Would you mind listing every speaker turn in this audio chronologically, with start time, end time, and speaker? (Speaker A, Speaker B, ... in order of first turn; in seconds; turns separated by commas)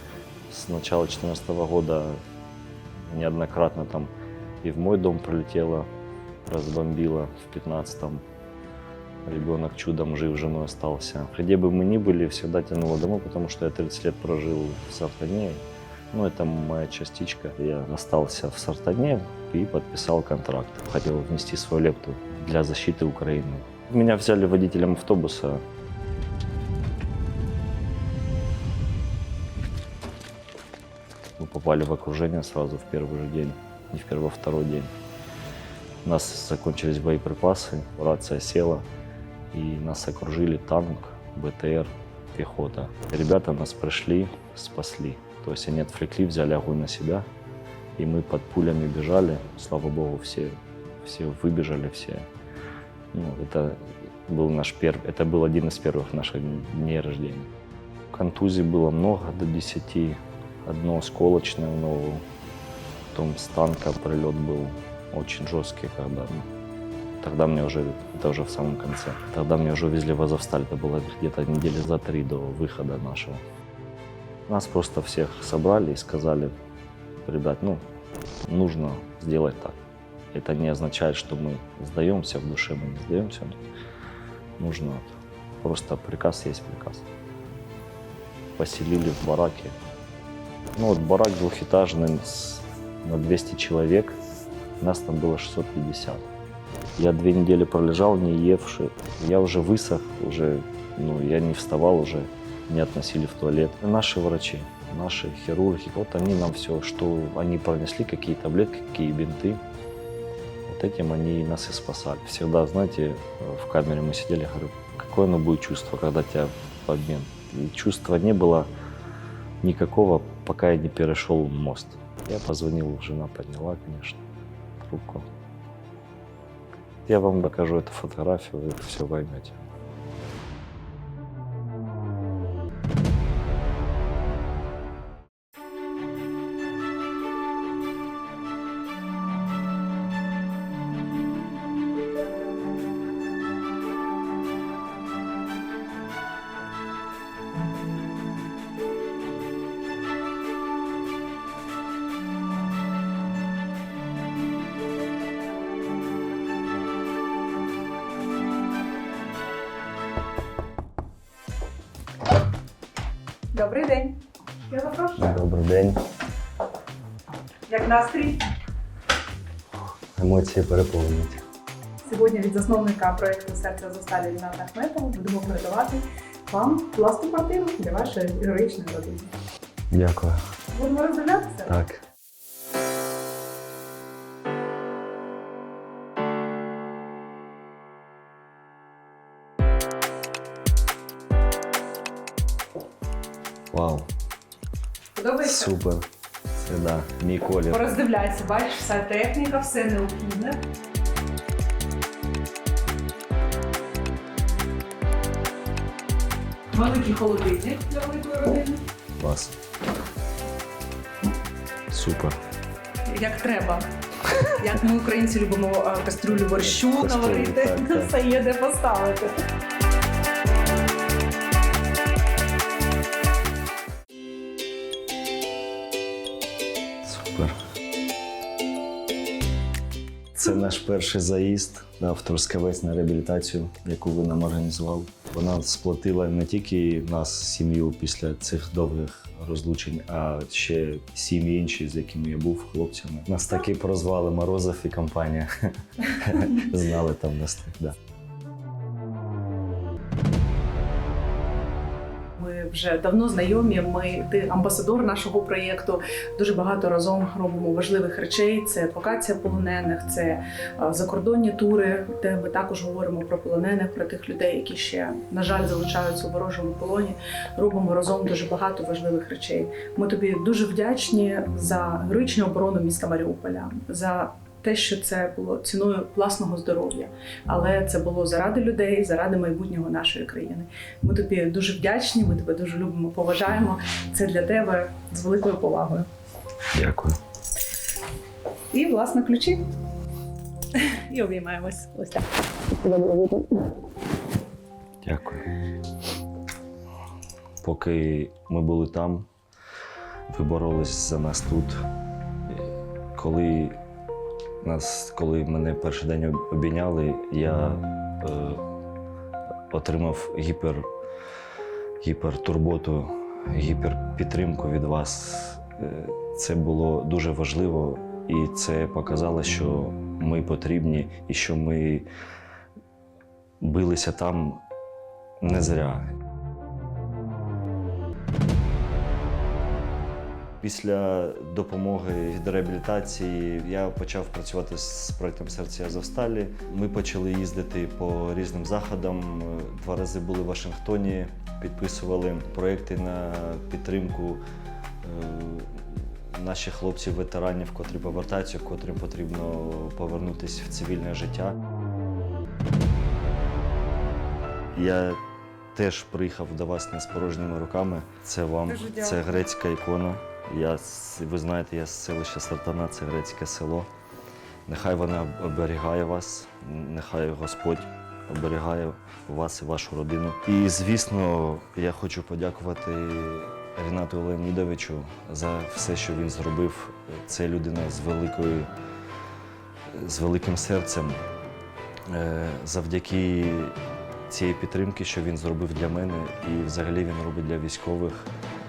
Speaker A: 0.5-2.2, Speaker A: 3.0-5.9, Speaker A: 6.5-8.2, Speaker A: 9.2-25.6, Speaker A: 31.4-34.9, Speaker A: 36.0-38.9, Speaker A: 39.5-47.3, Speaker A: 48.0-52.3, Speaker A: 53.1-57.5, Speaker A: 58.1-62.2, Speaker A: 63.1-66.5, Speaker A: 67.2-73.4, Speaker A: 74.5-76.6, Speaker A: 77.2-77.8, Speaker A: 78.5-79.8, Speaker A: 80.3-83.6, Speaker A: 84.6-87.1, Speaker A: 88.6-89.8, Speaker A: 90.7-94.2, Speaker A: 94.8-96.2, Speaker A: 97.0-109.6, Speaker A: 110.7-118.7, Speaker A: 119.6-124.2, Speaker A: 124.8-125.3, Speaker A: 127.1-129.6, Speaker B: 163.5-165.4, Speaker A: 165.2-166.0, Speaker B: 167.7-168.4, Speaker A: 170.2-171.4, Speaker B: 172.0-179.3, Speaker A: 179.9-180.4, Speaker B: 180.7-181.7, Speaker A: 181.7-182.0, Speaker A: 193.7-194.1, Speaker B: 195.2-195.7, Speaker A: 195.4-197.9, Speaker B: 197.7-200.6, Speaker B: 206.7-208.8, Speaker A: 209.2-209.6, Speaker A: 211.9-212.4, Speaker B: 213.1-213.9, Speaker B: 214.5-219.3, Speaker A: 216.5-218.1, Speaker A: 227.0-227.6, Speaker A: 230.3-247.9, Speaker B: 252.4-286.1, Speaker A: 286.7-287.2, Speaker B: 288.7-289.7, Speaker B: 290.7-292.3, Speaker B: 292.8-293.4, Speaker A: 295.0-295.4, Speaker A: 297.6-299.3, Speaker A: 300.3-301.9, Speaker A: 303.2-303.8, Speaker A: 304.6-308.6, Speaker A: 309.7-310.9, Speaker A: 312.0-322.1, Speaker A: 323.6-324.6, Speaker A: 325.4-326.1, Speaker A: 330.6-344.4, Speaker A: 345.0-351.6, Speaker A: 354.7-355.2, Speaker A: 355.7-363.9, Speaker B: 358.7-359.4, Speaker A: 364.7-378.7, Speaker A: 379.9-381.2, Speaker A: 382.1-383.8, Speaker A: 384.3-388.3